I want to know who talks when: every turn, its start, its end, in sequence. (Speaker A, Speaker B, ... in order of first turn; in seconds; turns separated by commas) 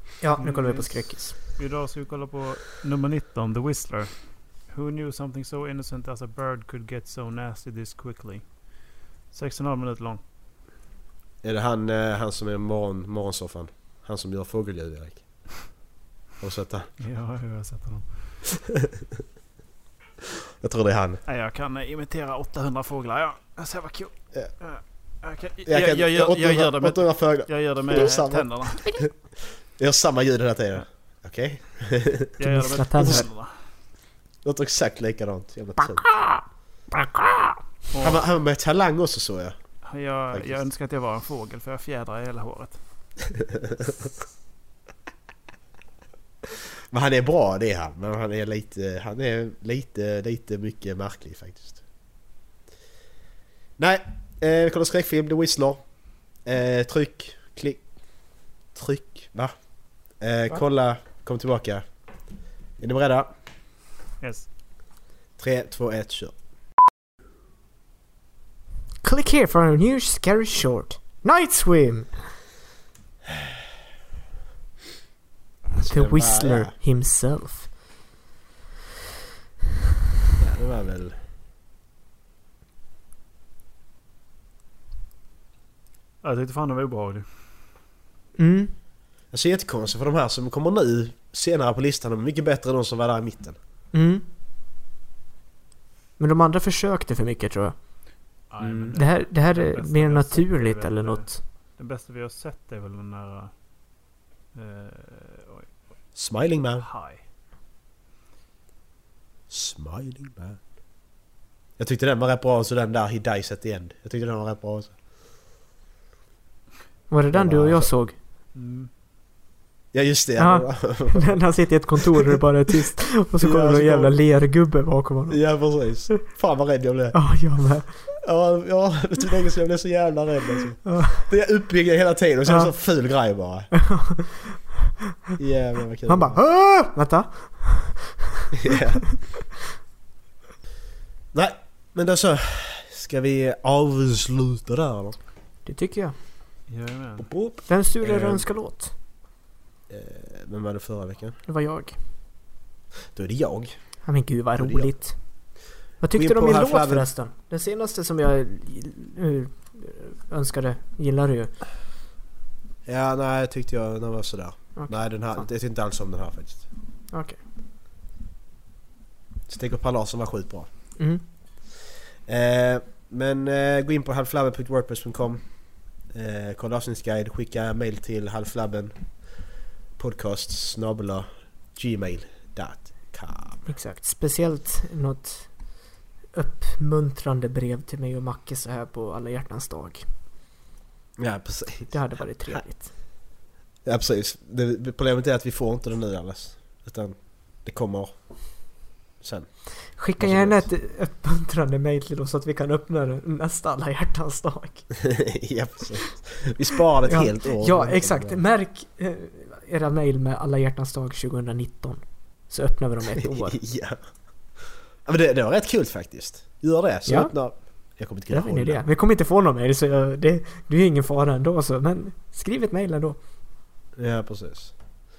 Speaker A: 0.2-1.4, Speaker B: 0.3-10.2, Speaker C: 11.4-15.8, Speaker C: 16.4-16.9, Speaker B: 17.0-18.4, Speaker C: 20.6-21.2, Speaker B: 21.2-28.9, Speaker C: 25.6-32.3, Speaker B: 32.4-33.5, Speaker A: 32.4-33.3, Speaker C: 33.0-33.3, Speaker C: 34.4-36.2, Speaker B: 37.9-38.3, Speaker C: 38.0-39.5, Speaker B: 39.8-42.8, Speaker C: 40.3-40.6, Speaker C: 43.5-43.9, Speaker C: 46.9-51.8, Speaker C: 53.8-63.3, Speaker B: 64.2-64.5, Speaker C: 65.4-66.3, Speaker A: 69.0-72.3, Speaker C: 75.7-76.7, Speaker A: 75.9-77.7, Speaker C: 80.4-81.2, Speaker B: 86.2-87.3, Speaker A: 88.4-88.7, Speaker C: 89.3-93.6, Speaker A: 93.9-94.2, Speaker A: 96.2-97.8, Speaker B: 98.5-103.5, Speaker C: 98.6-99.0, Speaker A: 99.0-101.4, Speaker B: 104.5-105.7, Speaker C: 106.1-106.9, Speaker B: 106.8-107.2, Speaker C: 109.5-110.6, Speaker C: 111.8-114.9, Speaker A: 117.1-118.1, Speaker C: 117.3-117.9, Speaker B: 118.5-118.9, Speaker C: 119.9-122.2, Speaker A: 120.4-125.9, Speaker C: 123.3-124.2, Speaker C: 125.3-133.7, Speaker A: 127.1-128.1, Speaker A: 130.8-131.3, Speaker A: 132.5-132.7, Speaker A: 133.7-134.6, Speaker C: 135.4-136.4, Speaker A: 136.1-138.4, Speaker C: 138.6-139.1, Speaker C: 141.3-145.2, Speaker A: 145.7-146.1, Speaker B: 146.7-147.3, Speaker C: 147.2-148.5, Speaker A: 147.7-148.9, Speaker C: 149.9-151.4, Speaker A: 151.5-152.0, Speaker C: 153.1-155.2, Speaker A: 154.0-161.6, Speaker C: 156.1-157.1, Speaker C: 162.8-166.7, Speaker A: 164.8-165.4, Speaker A: 167.1-167.4, Speaker C: 169.5-170.9, Speaker A: 171.0-171.2, Speaker C: 172.2-183.6, Speaker A: 183.7-190.1, Speaker C: 191.2-192.6, Speaker A: 191.9-192.9, Speaker C: 193.8-200.7, Speaker A: 199.9-205.0, Speaker C: 205.0-208.4, Speaker A: 207.1-213.6, Speaker C: 213.2-218.8, Speaker A: 217.1-223.2, Speaker C: 223.9-224.7